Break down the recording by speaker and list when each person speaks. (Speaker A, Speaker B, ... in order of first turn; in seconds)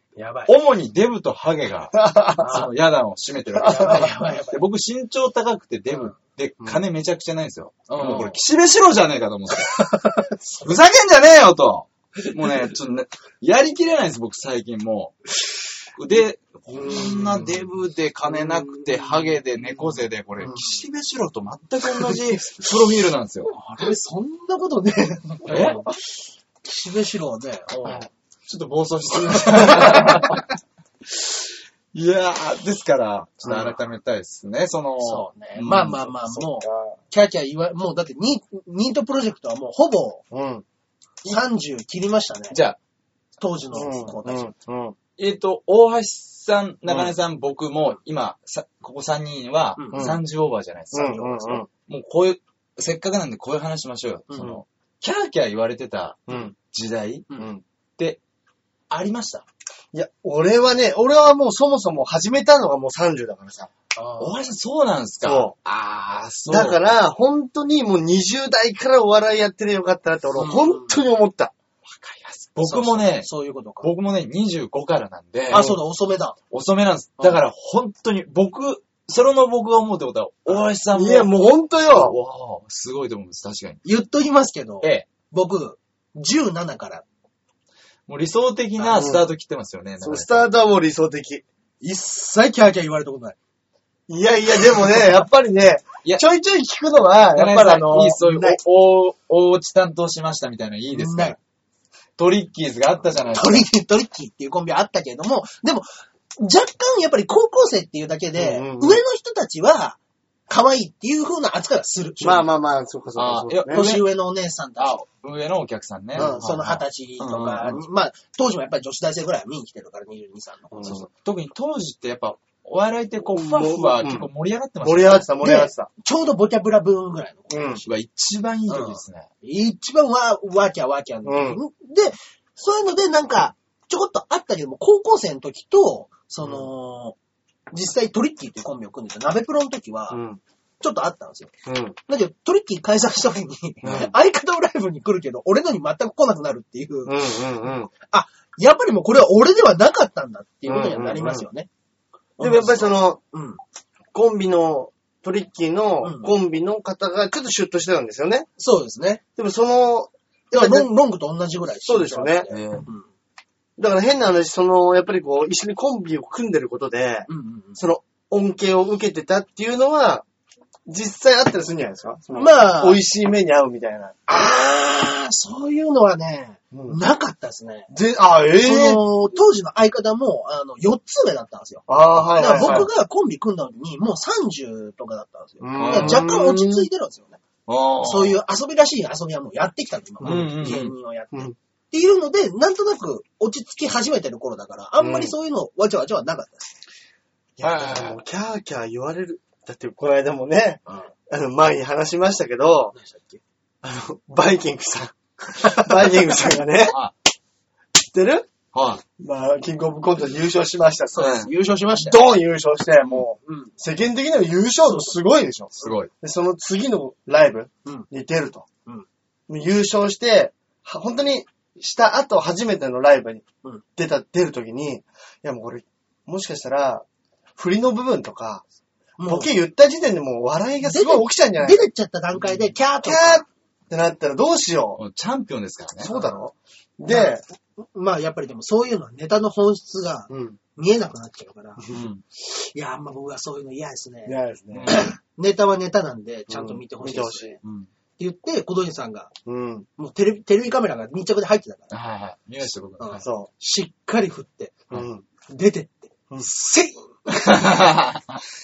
Speaker A: 0.1-0.5, 2.4-2.7, 3.6-4.6, 7.9-8.3, 9.7-10.3, 18.3-20.6, 23.5-25.9, 26.6-28.1, 29.2-30.4, 35.0-40.2, 41.2-42.6, 43.4-44.5, 49.8-50.1, 51.0-51.6, 54.3-54.5, 58.9-59.4, 64.0-64.5, 70.3-71.0, 72.6-73.9, 75.5-76.3, 83.8-87.0, 91.8-93.4, 98.2-98.6, 100.9-101.4, 103.3-105.9, 106.4-112.5, 113.7-115.0, 116.1-121.1, 125.4-127.8, 128.7-137.2, 137.7-140.2, 140.8-141.5, 142.1-147.4, 148.0-151.7, 152.4-153.6, 156.0-156.3, 158.6-159.2, 160.5-163.1, 167.3-167.8, 172.3-173.0, 174.3-177.9, 178.6-187.4, 188.0-196.7, 202.9-203.4, 211.1-212.3, 213.4-213.7, 214.8-215.1, 229.2-229.5, 230.8-233.5, 237.1-241.8, 242.4-244.3, 244.9-247.6, 248.2-249.3, 250.0-251.9, 253.0-254.8, 255.4-257.9
Speaker B: 0.5-9.9, 10.5-15.2, 15.9-23.5, 25.5-25.8, 27.9-30.4, 31.9-36.0, 42.5-42.8, 45.2-51.3, 51.9-57.3, 64.2-66.8, 71.9-73.3, 73.8-75.7, 76.5-81.3, 81.9-83.8, 88.1-90.5, 97.3-101.4, 102.2-103.7, 113.1-114.1, 114.8-117.8, 121.1-125.3, 127.8-129.3, 162.5-162.8, 182.2-182.9, 185.8-186.4, 187.7-188.4, 190.2-190.9, 197.6-198.2, 206.8-207.1, 208.7-209.0, 215.8-216.1, 235.0-236.2, 241.9-242.2, 244.7-245.1, 247.6-247.9, 251.9-253.2, 257.5-258.4
Speaker C: 1.9-2.6, 3.6-4.0, 16.7-17.6, 36.3-36.9, 40.3-40.6, 43.7-45.0, 46.9-47.1, 49.9-50.2, 50.9-51.7, 56.3-56.5, 59.9-63.7, 65.2-65.5, 66.5-71.5, 75.5-75.8, 80.9-82.2, 88.8-89.2, 90.0-91.4, 94.1-98.2, 108.3-109.0, 112.2-113.9, 116.2-116.4, 120.7-121.0, 123.3-124.3, 124.8-125.9, 127.5-127.8, 131.2-131.6, 140.1-140.4, 141.7-142.0, 143.8-144.1, 147.1-147.9, 150.7-151.4, 152.4-153.2, 154.1-158.5, 159.4-160.9, 161.8-162.5, 163.8-170.2, 170.8-174.2, 176.7-177.0, 177.9-179.0, 181.9-182.9, 185.6-186.8, 190.2-190.8, 195.0-195.3, 197.6-202.9, 203.8-207.0, 208.0-208.5, 209.2-218.7, 219.5-223.4, 223.9-227.0, 227.6-228.6, 229.3-231.8, 232.4-235.0, 236.0-237.4, 240.3-240.6, 244.2-245.1, 246.5-247.6, 249.4-249.9, 253.2-253.5, 254.9-255.2